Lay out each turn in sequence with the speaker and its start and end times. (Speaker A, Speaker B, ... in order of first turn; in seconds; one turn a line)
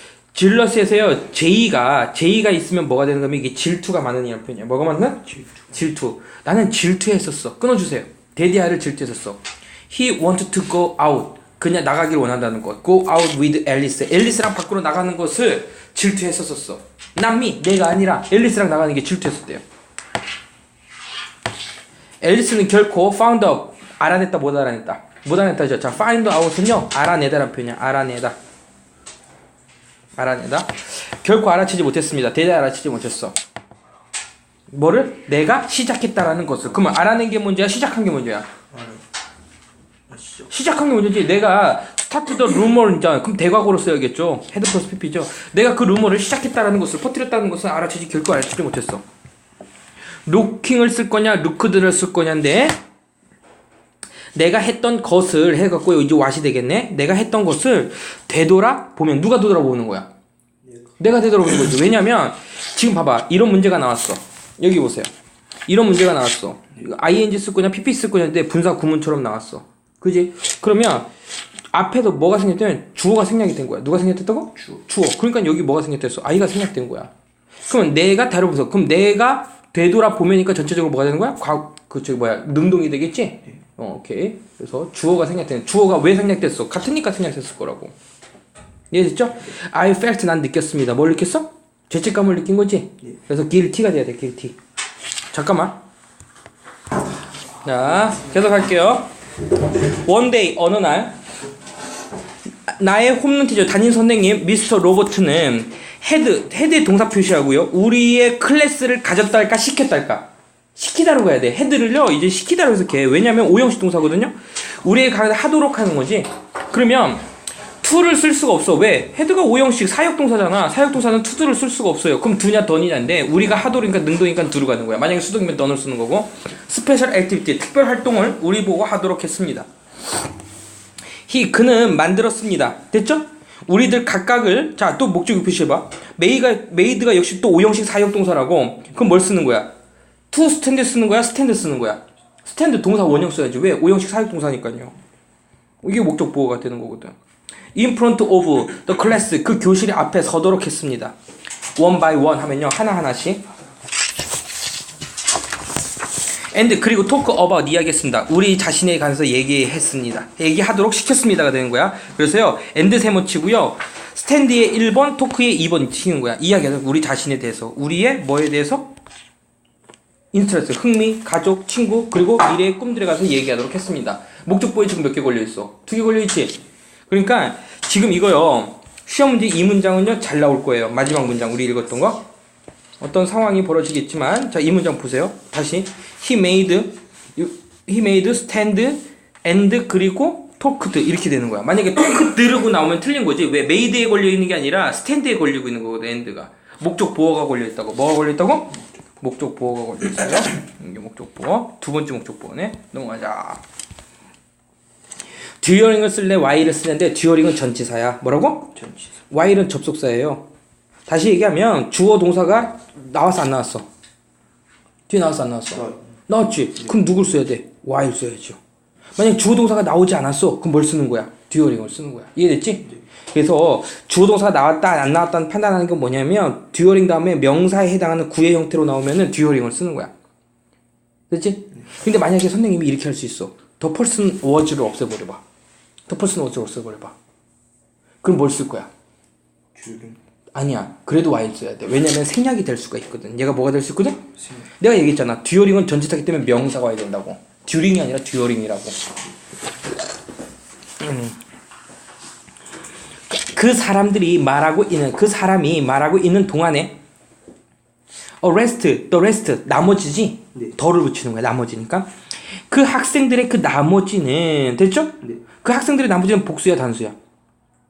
Speaker A: 0.3-19.6
Speaker B: 5.3-5.7
Speaker A: 22.2-28.4
Speaker A: 30.2-33.4
Speaker A: 34.7-38.5
Speaker B: 38.7-39.0
Speaker B: 40.1-40.5
Speaker A: 40.5-49.0
Speaker A: 50.3-52.8
Speaker A: 54.3-60.1
Speaker A: 61.0-65.1
Speaker A: 65.7-71.1
Speaker A: 71.7-77.1
Speaker A: 77.7-88.0
Speaker A: 88.9-94.6
Speaker A: 95.3-95.8
Speaker A: 97.6-101.2
Speaker A: 102.7-117.3
Speaker A: 117.8-129.7
Speaker A: 131.3-139.7
Speaker A: 140.3-144.9
Speaker A: 145.8-147.2
Speaker A: 147.8-151.2
Speaker A: 151.8-153.4
Speaker A: 156.5-168.9
Speaker A: 170.3-182.2
Speaker A: 183.0-203.6
Speaker A: 205.6-208.8
Speaker B: 208.8-209.2
Speaker A: 209.3-210.4
Speaker A: 211.1-213.9
Speaker A: 215.1-218.6
Speaker A: 219.2-230.1
Speaker A: 231.3-235.4
Speaker A: 236.1-237.2
Speaker A: 238.2-238.9
Speaker B: 239.7-240.2
Speaker A: 240.5-244.3
Speaker B: 244.4-244.7
Speaker A: 244.8-249.1
Speaker A: 251.0-251.4
Speaker A: 253.3-257.0
Speaker A: 258.4-267.2